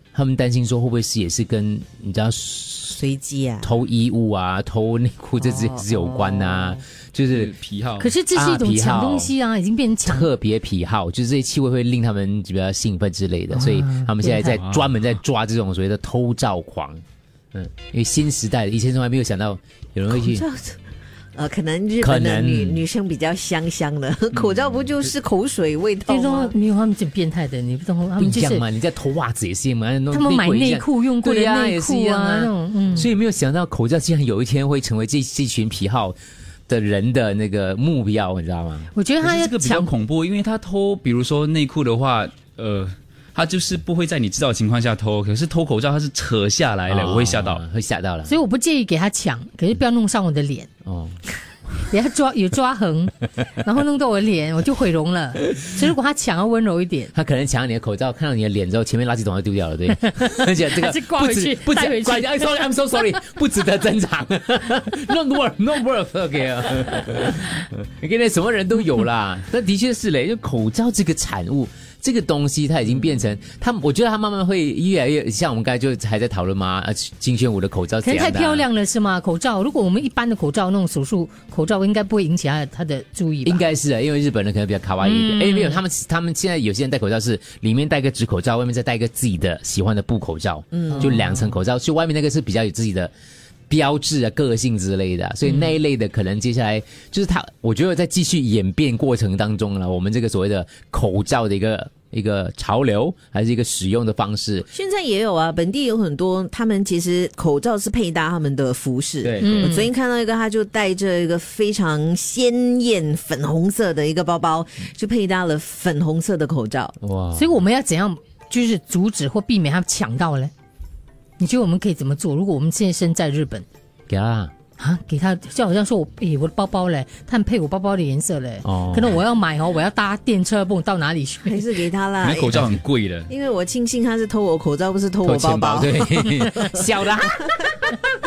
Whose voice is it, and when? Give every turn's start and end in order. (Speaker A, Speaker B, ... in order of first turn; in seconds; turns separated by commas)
Speaker A: 0.1-3.0, Speaker B: 3.0-3.7, Speaker A: 3.6-7.5, Speaker B: 5.4-6.7, Speaker C: 7.3-8.1, Speaker D: 8.0-10.3, Speaker A: 8.3-9.3, Speaker A: 10.1-17.0, Speaker D: 13.5-14.6, Speaker A: 17.5-20.4, Speaker B: 20.1-20.8, Speaker B: 21.3-26.5, Speaker A: 22.0-22.8, Speaker D: 26.1-28.6, Speaker A: 28.2-36.2, Speaker D: 30.1-33.1, Speaker A: 36.7-38.9, Speaker D: 38.9-39.9, Speaker C: 39.2-47.6, Speaker A: 46.9-48.3, Speaker D: 48.3-50.7, Speaker A: 50.9-51.2, Speaker D: 51.9-57.1, Speaker A: 57.1-78.7, Speaker D: 60.0-62.8, Speaker D: 78.0-83.6, Speaker A: 83.4-93.1, Speaker D: 85.0-85.8, Speaker B: 90.7-91.1, Speaker D: 90.9-91.5, Speaker A: 93.7-104.7, Speaker B: 104.7-116.9, Speaker A: 109.2-109.8, Speaker D: 109.4-109.9, Speaker A: 117.0-117.6, Speaker D: 117.3-120.5, Speaker D: 121.4-123.6, Speaker A: 124.1-124.5, Speaker D: 124.8-131.6, Speaker A: 128.6-129.2, Speaker B: 131.4-132.8, Speaker C: 132.2-133.3, Speaker B: 133.3-136.8, Speaker A: 135.2-137.6, Speaker B: 137.3-137.6